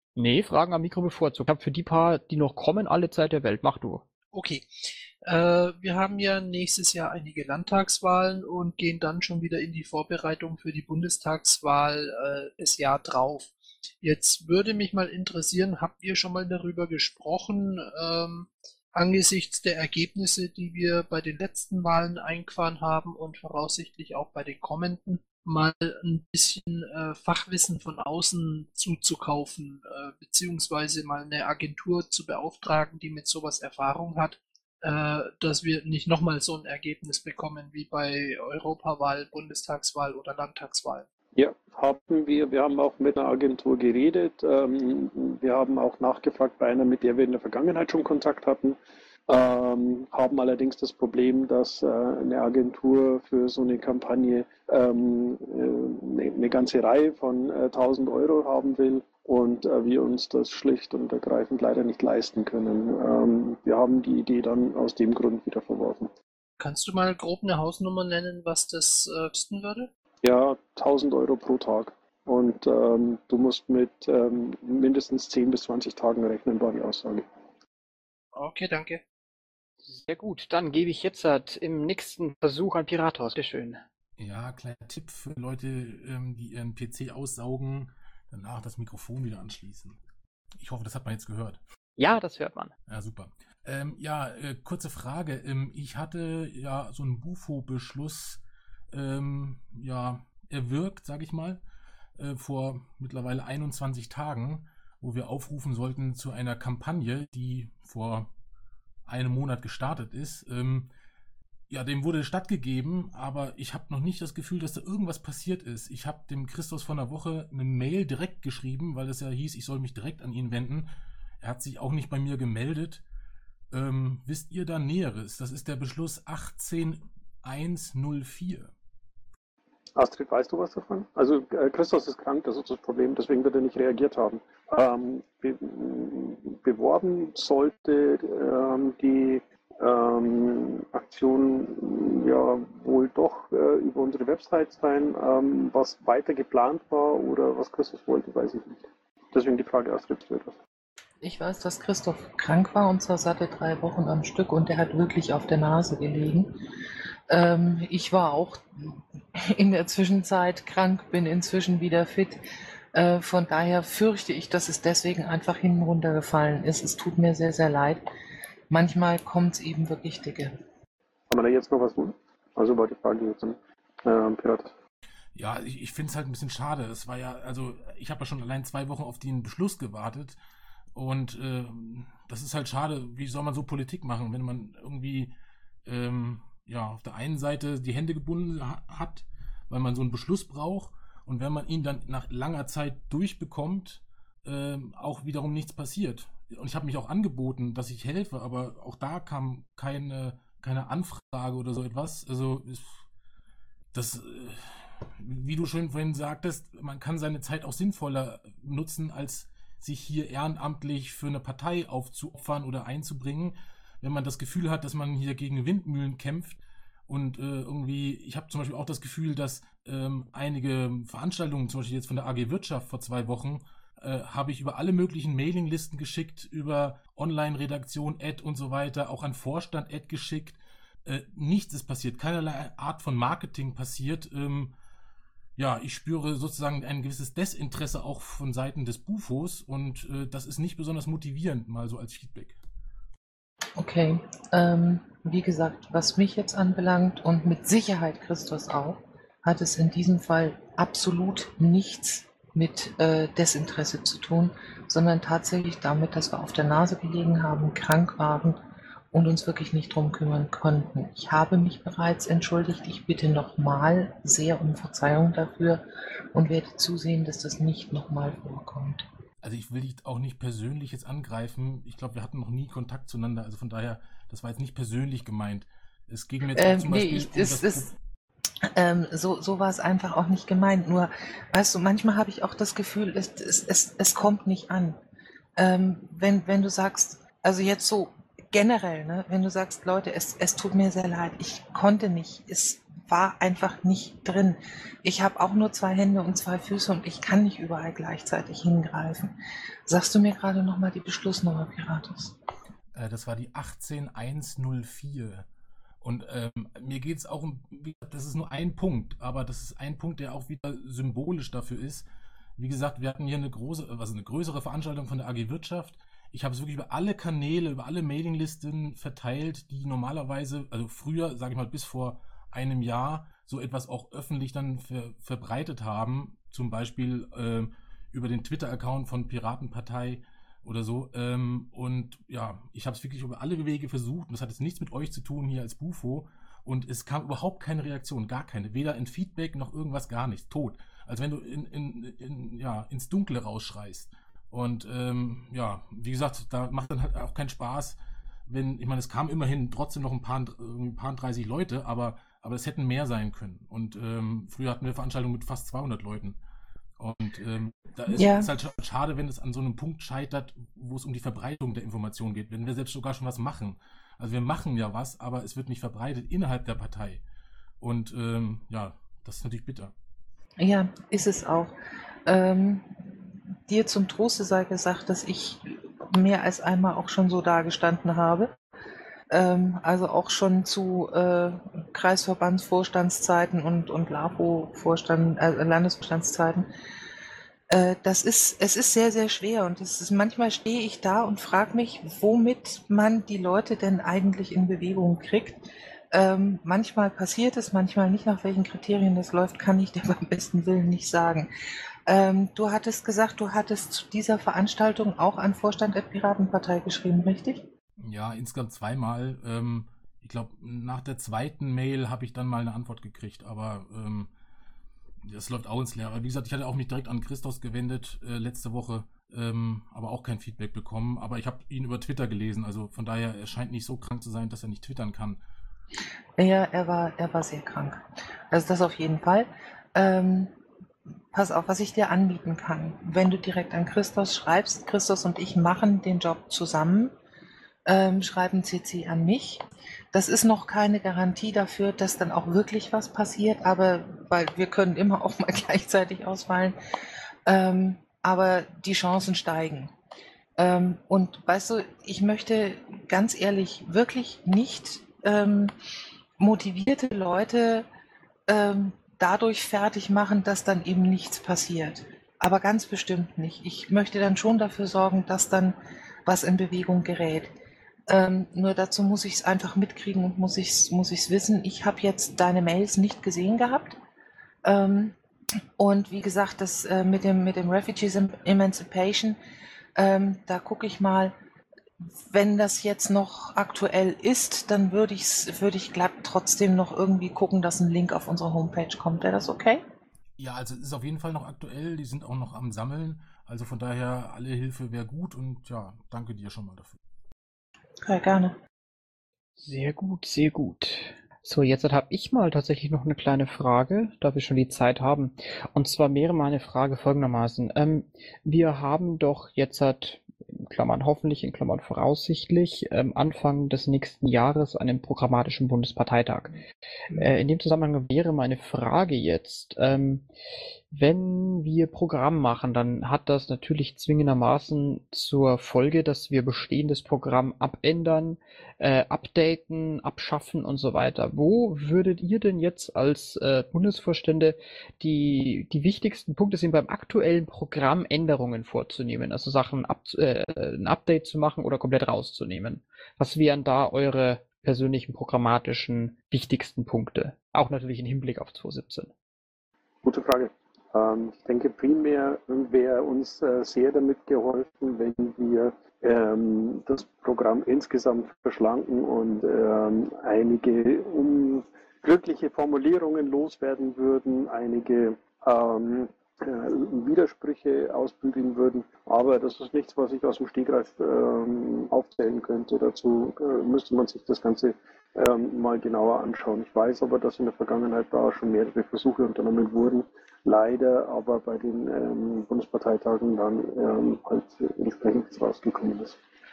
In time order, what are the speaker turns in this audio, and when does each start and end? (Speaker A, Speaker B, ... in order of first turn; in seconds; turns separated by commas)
Speaker A: 0.1-4.0, Speaker B: 4.3-41.0, Speaker C: 41.3-48.8, Speaker C: 49.3-66.1, Speaker B: 66.6-69.9, Speaker C: 70.2-77.2, Speaker B: 78.3-79.0, Speaker A: 79.8-83.8, Speaker D: 84.2-90.0, Speaker D: 90.6-91.6, Speaker A: 92.0-92.7, Speaker D: 92.9-98.4, Speaker D: 98.9-101.6, Speaker D: 102.2-108.3, Speaker D: 109.0-110.9, Speaker D: 111.7-120.9, Speaker D: 121.4-123.0, Speaker D: 123.7-128.7, Speaker C: 129.9-150.6, Speaker E: 151.2-156.6, Speaker E: 157.3-162.4, Speaker E: 162.9-168.0, Speaker E: 168.7-170.6, Speaker C: 171.3-174.7, Speaker D: 175.3-180.4, Speaker D: 180.9-185.3, Speaker D: 185.8-203.0, Speaker D: 203.9-234.7, Speaker D: 235.6-242.6, Speaker E: 243.8-258.6, Speaker E: 259.1-269.0, Speaker D: 269.4-277.9, Speaker E: 276.6-277.9, Speaker E: 278.7-285.0, Speaker E: 285.6-299.3, Speaker E: 299.9-302.4, Speaker D: 302.9-305.4, Speaker D: 306.0-312.1, Speaker D: 312.6-356.4, Speaker D: 357.0-367.2, Speaker E: 358.1-358.5, Speaker D: 367.8-369.9, Speaker E: 370.6-371.7, Speaker E: 372.2-373.1, Speaker E: 373.7-378.5, Speaker E: 379.3-386.7, Speaker E: 387.7-401.5, Speaker E: 402.1-407.7, Speaker D: 408.0-414.3, Speaker D: 415.2-425.4, Speaker E: 426.4-430.5, Speaker E: 431.3-437.1, Speaker E: 437.9-446.8, Speaker E: 447.4-449.9, Speaker E: 450.6-455.7, Speaker E: 456.4-457.9, Speaker E: 458.5-467.5, Speaker E: 468.1-474.0, Speaker E: 474.6-475.1, Speaker E: 475.8-479.4, Speaker E: 479.9-481.3, Speaker E: 482.0-489.8, Speaker D: 490.4-497.0, Speaker E: 498.0-498.6, Speaker A: 499.6-516.6, Speaker A: 517.1-520.2, Speaker A: 520.9-549.1, Speaker C: 550.0-586.2